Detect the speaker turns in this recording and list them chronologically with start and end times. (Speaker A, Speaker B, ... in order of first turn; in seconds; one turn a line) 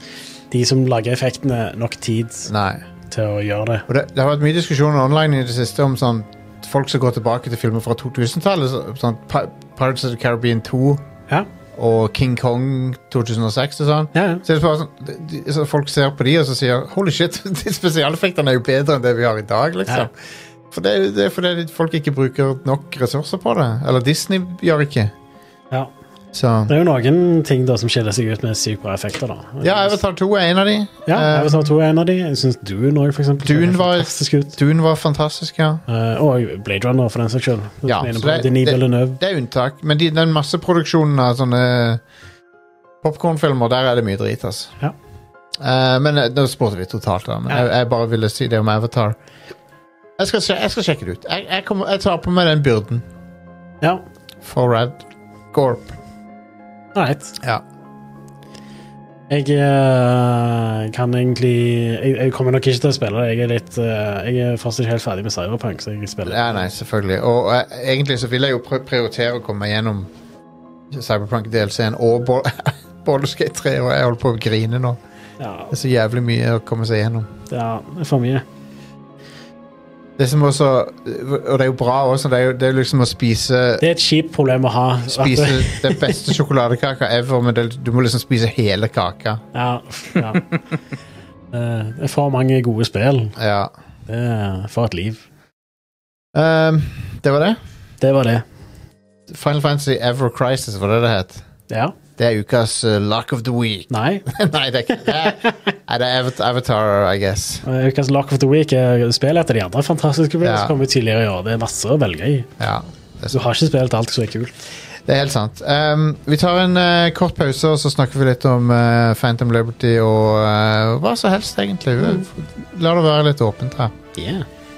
Speaker A: 0.5-2.5
Speaker B: 2.5-2.8
Speaker A: 3.1-3.9
Speaker B: 3.9-11.0
Speaker B: 11.8-20.1
Speaker A: 14.1-14.4
Speaker B: 20.7-25.1
Speaker B: 26.3-26.7
Speaker A: 26.7-30.0
Speaker B: 29.6-31.7
Speaker A: 31.1-34.6
Speaker B: 33.4-35.8
Speaker A: 35.9-39.2
Speaker B: 37.9-42.0
Speaker B: 43.0-44.8
Speaker B: 45.6-49.2
Speaker B: 50.2-53.1
Speaker B: 54.4-56.0
Speaker A: 57.0-57.4
Speaker A: 59.3-66.6
Speaker B: 66.2-70.1
Speaker B: 70.9-75.0
Speaker A: 75.4-75.7
Speaker B: 75.7-77.3
Speaker A: 77.5-78.4
Speaker B: 80.2-83.8
Speaker A: 83.8-86.2
Speaker B: 85.1-89.4
Speaker A: 89.5-90.5
Speaker A: 91.5-93.4
Speaker B: 93.4-93.7
Speaker A: 94.1-95.2
Speaker B: 96.3-97.6
Speaker A: 98.0-98.5
Speaker B: 99.3-101.4
Speaker B: 102.2-107.6
Speaker A: 103.9-104.3
Speaker A: 105.0-105.6
Speaker A: 107.6-112.5
Speaker B: 110.4-110.8
Speaker B: 112.6-113.4
Speaker A: 113.3-114.6
Speaker B: 115.1-123.9
Speaker A: 124.2-124.5